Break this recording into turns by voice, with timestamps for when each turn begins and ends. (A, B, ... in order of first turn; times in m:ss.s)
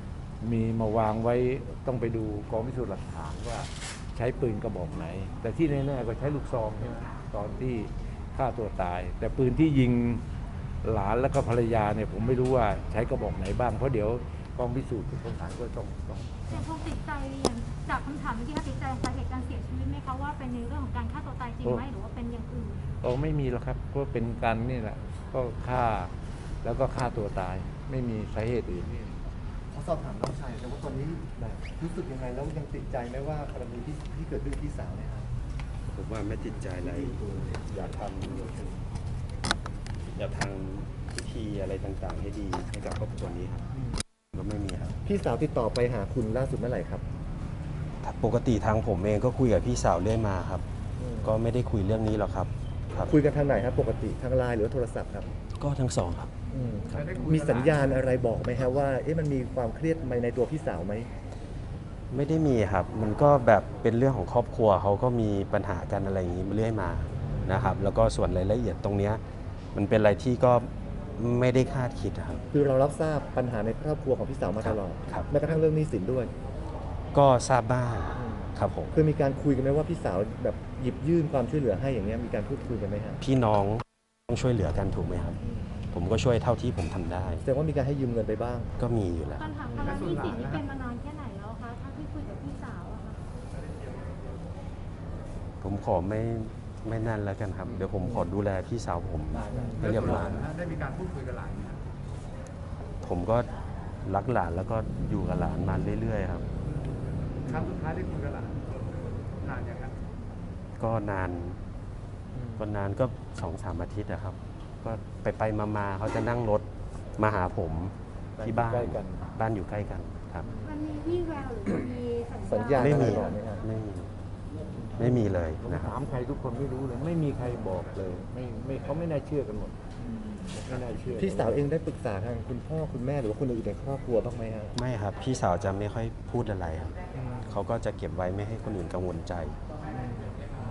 0:00.4-0:10.2 A
0:10.8-0:16.6 A
0:16.5-0:22.8 B
0:23.0-0:29.1 A
0:29.7-0:35.3 C
0:35.9-0:38.7 D
0:36.8-0:37.6 C
0:40.1-0:43.7 D
0:44.3-0:45.0 D
0:45.0-0:47.0 C
0:48.0-0:50.6 D
0:51.0-0:51.3 C
0:51.2-0:53.1 D
0:53.0-0:55.3 C
0:55.6-0:56.3 D
0:56.5-1:01.1 C
0:56.9-0:58.0 E
1:02.1-1:09.2 D
1:09.7-1:12.4 D
1:12.5-1:16.3 C
1:14.6-1:15.3 D
1:17.1-1:19.0 D
1:18.1-1:23.2 C
1:23.2-1:25.4 D
1:25.9-1:27.4 D
1:27.4-1:28.7 C
1:28.8-1:29.5 D
1:29.3-1:33.2 B
1:29.8-1:30.6 E
1:35.6-1:40.5 D
1:39.3-1:40.3 C
1:39.8-1:41.8 E
1:43.0-1:43.5 D
1:44.0-1:46.4 D
1:47.4-1:48.7 E
1:49.4-1:49.9 E
1:50.8-1:51.6 D
1:52.5-2:00.5 D
1:58.4-1:59.3 A
2:00.6-2:03.4 B
2:02.4-2:03.6 C
2:02.8-2:04.1 D
2:05.0-2:06.0 D
2:05.6-2:09.8 A
2:10.6-2:11.6 A
2:10.6-2:14.8 C
2:14.7-2:19.6 D
2:17.2-2:17.5 C
2:19.9-2:20.6 C